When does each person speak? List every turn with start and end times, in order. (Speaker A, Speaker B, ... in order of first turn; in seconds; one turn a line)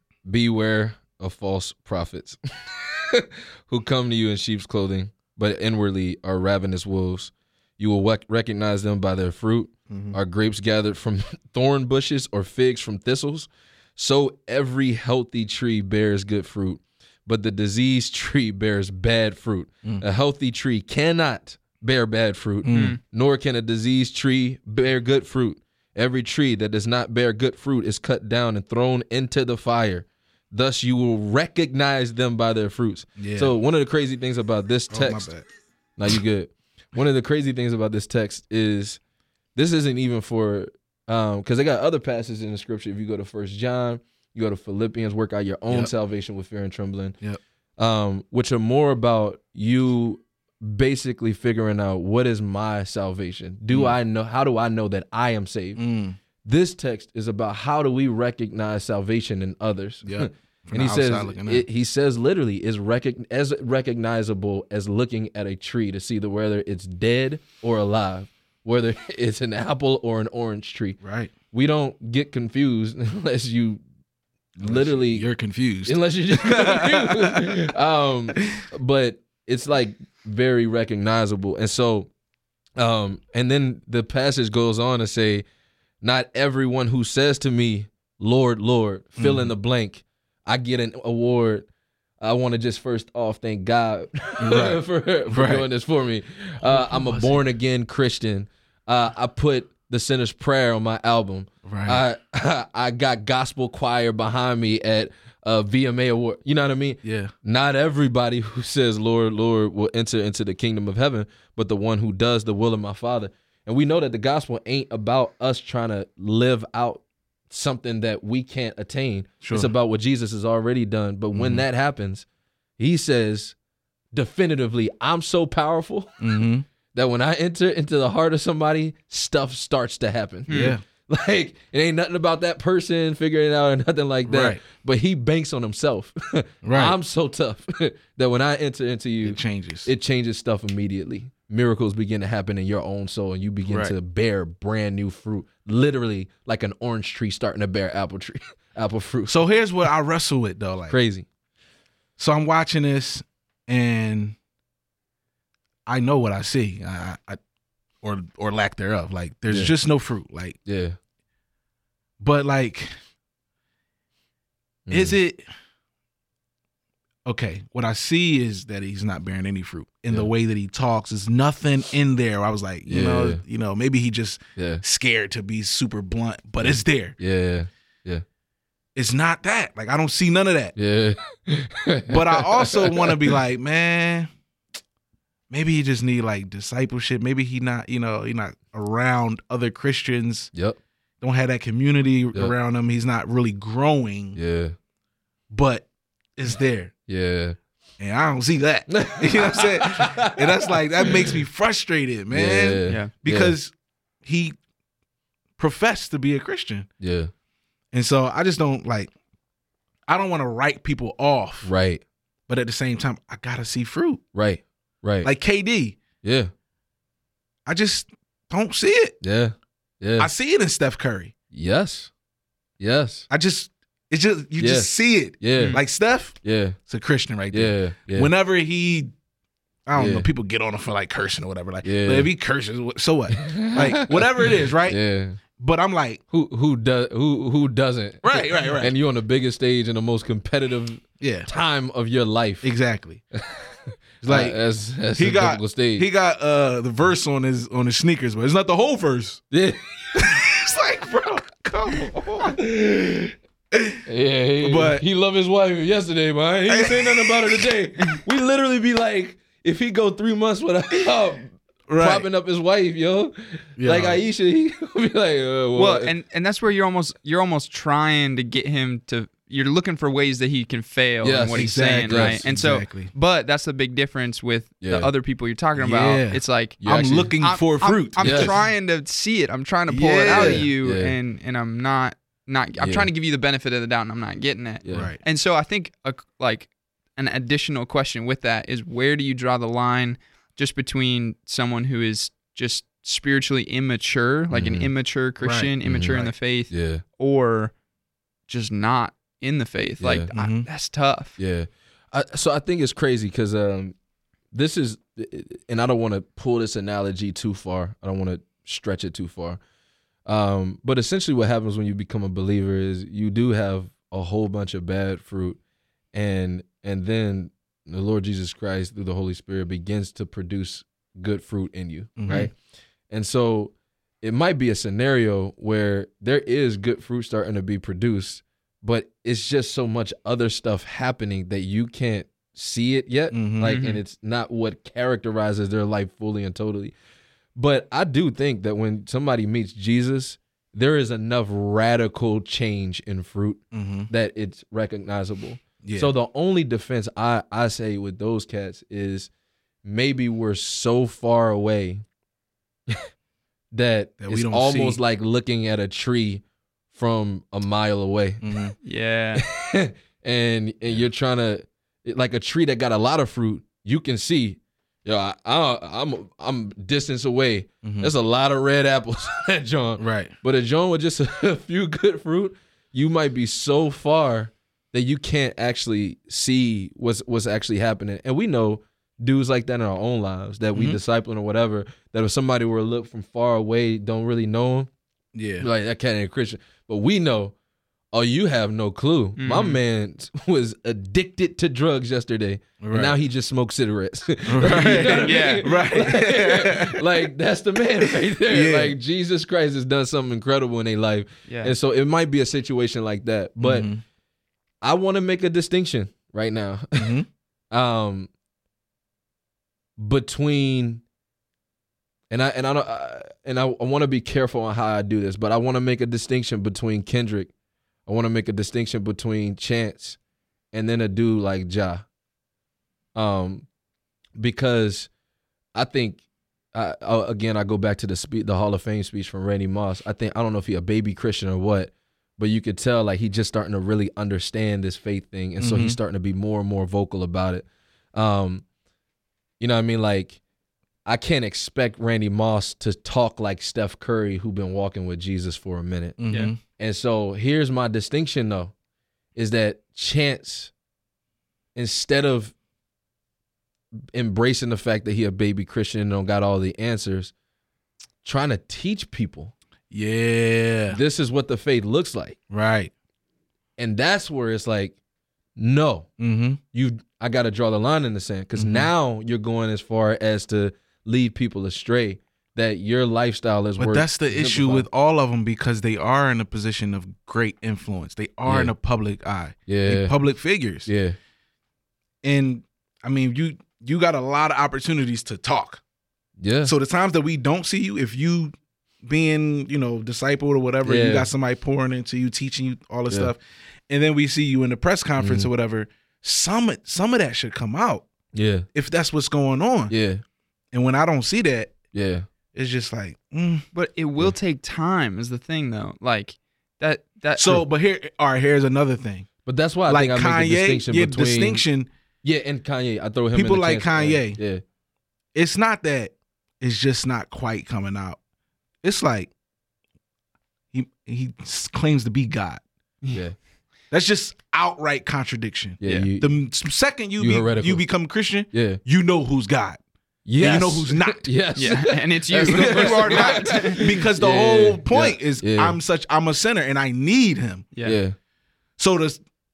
Speaker A: 0.2-35.3
Speaker B: 9.9-10.2
Speaker B: 22.6-23.0
Speaker C: 22.7-23.0
Speaker B: 33.2-33.5
Speaker B: 34.9-35.4
Speaker A: 36.0-39.0
Speaker A: 39.5-47.1
Speaker A: 47.8-55.8
Speaker B: 53.7-54.0
Speaker B: 55.8-56.2
Speaker A: 56.4-71.0
Speaker B: 60.0-61.6
Speaker B: 71.0-71.3
Speaker A: 71.5-73.8
Speaker A: 74.5-75.2
Speaker B: 74.6-77.5
Speaker A: 75.8-82.1
Speaker A: 82.8-85.4
Speaker A: 86.0-91.7
Speaker B: 89.2-89.5
Speaker A: 92.2-122.2
Speaker B: 94.4-95.7
Speaker B: 96.6-97.5
Speaker B: 101.6-102.0
Speaker B: 107.0-107.3
Speaker B: 119.4-119.7
Speaker B: 121.3-121.6
Speaker A: 122.8-123.5
Speaker A: 124.1-126.2
Speaker B: 126.2-126.6
Speaker A: 126.9-149.4
Speaker C: 130.5-130.7
Speaker B: 130.5-130.8
Speaker B: 134.3-134.6
Speaker B: 136.6-136.9
Speaker B: 139.2-139.9
Speaker B: 143.7-143.9
Speaker B: 149.3-150.9
Speaker A: 150.9-151.2
Speaker B: 152.2-154.3
Speaker B: 155.9-157.4
Speaker B: 158.0-160.6
Speaker A: 160.6-161.0
Speaker B: 162.2-162.9
Speaker A: 164.9-165.2
Speaker B: 164.9-165.5
Speaker B: 167.2-177.2
Speaker A: 172.8-173.4
Speaker A: 174.6-174.8
Speaker A: 176.6-178.2
Speaker B: 178.9-180.7
Speaker A: 180.7-183.3
Speaker B: 182.1-184.3
Speaker B: 185.5-190.5
Speaker A: 190.5-190.8
Speaker B: 191.2-194.4
Speaker A: 194.3-194.7
Speaker B: 195.5-196.9
Speaker A: 197.1-197.6
Speaker B: 198.0-204.5
Speaker A: 198.9-201.4
Speaker A: 202.3-203.5
Speaker B: 205.6-206.9
Speaker A: 207.0-207.3
Speaker B: 207.9-209.1
Speaker B: 210.1-211.7
Speaker A: 211.6-212.0
Speaker B: 212.5-214.2
Speaker A: 214.3-215.3
Speaker B: 215.2-216.0
Speaker A: 216.2-216.5
Speaker B: 217.7-219.2
Speaker A: 219.2-220.3
Speaker B: 220.2-221.3
Speaker A: 221.5-222.1
Speaker A: 222.8-223.3
Speaker B: 223.3-229.1
Speaker A: 224.6-225.8
Speaker C: 225.6-225.8
Speaker A: 226.4-226.8
Speaker A: 227.5-228.3
Speaker B: 229.8-235.0
Speaker A: 229.9-230.3
Speaker A: 231.8-232.3
Speaker A: 233.3-235.4
Speaker B: 235.6-236.2
Speaker A: 236.3-242.7
Speaker B: 238.2-238.9
Speaker B: 241.2-241.5
Speaker B: 242.6-243.2
Speaker A: 243.3-246.1
Speaker B: 244.2-244.6
Speaker B: 245.1-249.4
Speaker A: 249.5-250.4
Speaker B: 250.2-252.6
Speaker A: 252.4-253.3
Speaker B: 253.7-254.0
Speaker A: 254.0-266.1
Speaker B: 254.6-255.0
Speaker B: 256.7-257.6
Speaker B: 261.9-262.3
Speaker B: 263.8-264.2
Speaker C: 265.8-276.8
Speaker A: 271.2-272.4
Speaker B: 271.5-273.1
Speaker A: 274.8-275.1
Speaker B: 275.8-278.7
Speaker A: 276.8-277.3
Speaker C: 277.4-297.7
Speaker A: 278.2-278.5
Speaker B: 279.9-280.7
Speaker A: 280.3-281.1
Speaker A: 282.8-283.1
Speaker A: 284.8-285.1
Speaker B: 284.9-285.2
Speaker A: 294.5-294.9
Speaker B: 295.4-296.3
Speaker A: 295.8-297.0
Speaker C: 298.5-301.4
Speaker A: 300.0-300.3
Speaker B: 300.3-300.7
Speaker A: 301.4-303.9
Speaker A: 304.5-309.6
Speaker A: 310.2-315.6
Speaker A: 316.1-322.5
Speaker B: 322.2-322.5
Speaker A: 323.1-336.9
Speaker B: 333.3-333.8
Speaker C: 333.6-334.0
Speaker A: 337.6-349.3
Speaker B: 343.7-344.1
Speaker B: 345.8-346.1
Speaker A: 349.8-352.0
Speaker A: 353.7-358.6
Speaker B: 354.2-355.0
Speaker B: 358.4-358.7
Speaker C: 358.8-359.4
Speaker A: 359.3-384.9
Speaker B: 367.8-368.1
Speaker B: 370.0-370.3
Speaker B: 380.7-381.0
Speaker B: 385.3-385.7
Speaker A: 385.6-387.5
Speaker A: 388.1-403.9
Speaker C: 389.4-389.8
Speaker B: 392.8-393.1
Speaker B: 394.5-397.0
Speaker C: 394.7-395.7
Speaker B: 398.0-398.9
Speaker C: 401.5-401.7
Speaker B: 403.6-404.0
Speaker A: 404.8-407.1
Speaker B: 406.9-407.3
Speaker A: 407.7-408.3
Speaker A: 410.0-411.0
Speaker A: 412.3-417.5
Speaker A: 418.1-420.2
Speaker A: 420.7-422.0
Speaker A: 423.1-423.6
Speaker A: 424.4-425.1
Speaker A: 425.7-426.2
Speaker A: 426.7-438.6
Speaker B: 435.6-436.0
Speaker A: 439.6-440.4
Speaker A: 441.1-446.2
Speaker B: 446.2-446.6
Speaker A: 446.8-448.7
Speaker A: 449.3-450.7
Speaker A: 451.7-452.5
Speaker A: 454.1-457.3
Speaker A: 458.2-459.5
Speaker B: 459.9-461.0
Speaker A: 460.9-462.4
Speaker B: 462.5-462.9
Speaker A: 463.8-464.9
Speaker A: 465.6-466.1
Speaker B: 466.2-466.6
Speaker A: 466.7-474.9
Speaker B: 468.6-468.9
Speaker B: 473.8-480.9
Speaker A: 478.4-478.7
Speaker A: 479.7-480.1
Speaker A: 480.9-481.2
Speaker B: 482.2-485.8
Speaker A: 486.4-486.7
Speaker B: 486.6-498.1
Speaker A: 490.8-491.3
Speaker A: 495.2-495.5
Speaker A: 498.3-498.7
Speaker B: 498.7-499.9
Speaker A: 499.9-500.2
Speaker B: 500.7-501.8
Speaker A: 501.9-502.2
Speaker B: 502.5-503.6
Speaker C: 503.7-507.6
Speaker B: 507.4-509.3
Speaker A: 509.4-511.6
Speaker B: 509.9-511.9
Speaker A: 512.2-514.6
Speaker B: 513.3-514.4
Speaker B: 515.3-518.2
Speaker B: 518.8-519.3
Speaker B: 520.7-522.6
Speaker B: 523.9-529.8
Speaker A: 525.8-526.3
Speaker A: 527.2-527.8
Speaker A: 528.5-528.8
Speaker A: 530.2-535.8
Speaker B: 530.4-531.2
Speaker C: 531.5-533.8
Speaker B: 532.4-537.7
Speaker A: 537.8-538.1
Speaker B: 538.8-539.2